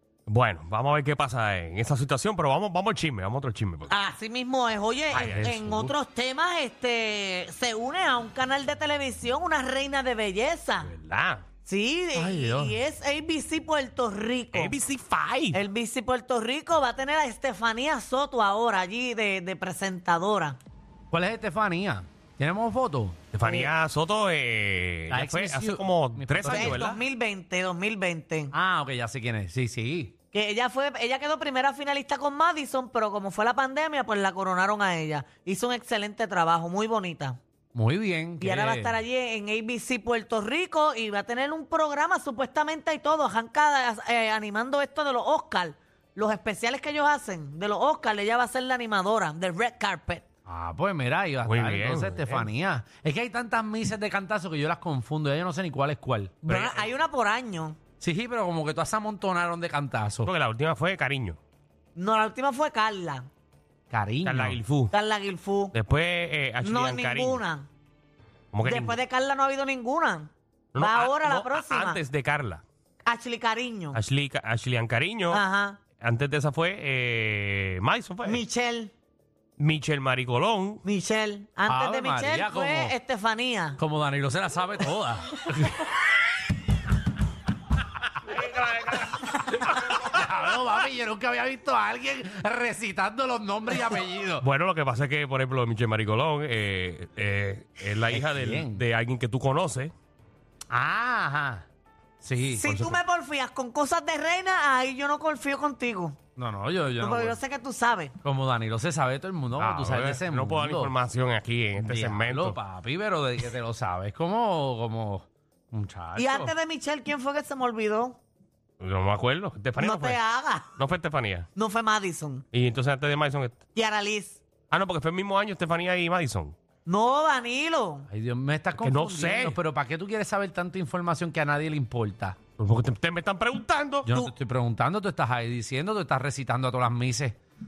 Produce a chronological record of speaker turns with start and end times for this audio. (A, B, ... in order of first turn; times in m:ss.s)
0:00.3-0:04.0 A
0:03.9-0:10.9 B
0:05.1-0:05.5 A
0:05.1-0:05.9 C
0:10.8-0:11.4 A
0:11.6-0:14.8 B
0:12.1-0:12.8 C
0:14.5-0:15.6 A
0:15.5-0:20.6 B
0:21.1-0:23.2 C
0:23.3-0:27.0 A
0:23.4-0:23.7 B
0:25.1-0:26.9 C
0:26.4-0:28.5 B
0:28.5-0:30.1 C
0:30.3-0:37.4 B
0:37.7-0:39.0 C
0:38.4-0:50.2 B
0:50.4-0:56.8 C
0:51.4-0:52.5 A
0:56.4-0:57.8 B
0:58.0-1:00.3 C
1:00.2-1:01.4 A
1:01.9-1:03.3 B
1:03.9-1:04.6 C
1:04.2-1:04.9 A
1:04.9-1:05.7 B
1:05.7-1:07.4 A
1:06.6-1:07.7 B
1:08.5-1:09.0 A
1:08.6-1:12.0 B
1:10.7-1:12.6 A
1:13.0-1:14.0 B
1:13.9-1:15.4 A
1:15.3-1:15.8 B
1:16.0-1:18.4 A
1:18.2-1:18.9 B
1:19.6-1:20.8 A
1:20.8-1:23.8 B
1:21.6-1:23.0 C
1:23.8-1:25.9 C
1:28.2-1:30.2 A
1:29.8-1:34.4 C
1:34.4-1:39.9 A
1:38.1-1:38.8 C
1:40.7-1:41.7 C
1:42.2-1:42.7 C
1:42.5-1:46.2 B
1:42.6-1:43.0 A
1:46.4-1:47.4 C
1:47.0-1:48.1 B
1:48.2-1:50.9 C
1:49.6-1:52.6 A
1:51.8-1:56.5 C
1:56.2-1:58.2 B
1:58.8-2:00.2 A
1:59.8-2:00.8 B
2:00.7-2:01.5 A
2:01.6-2:02.4 B
2:02.5-2:03.6 A
2:03.7-2:04.4 B
2:04.7-2:06.6 A
2:06.8-2:08.1 B
2:08.1-2:12.4 C
2:08.8-2:09.6 A
2:12.6-2:14.1 A
2:14.0-2:17.4 C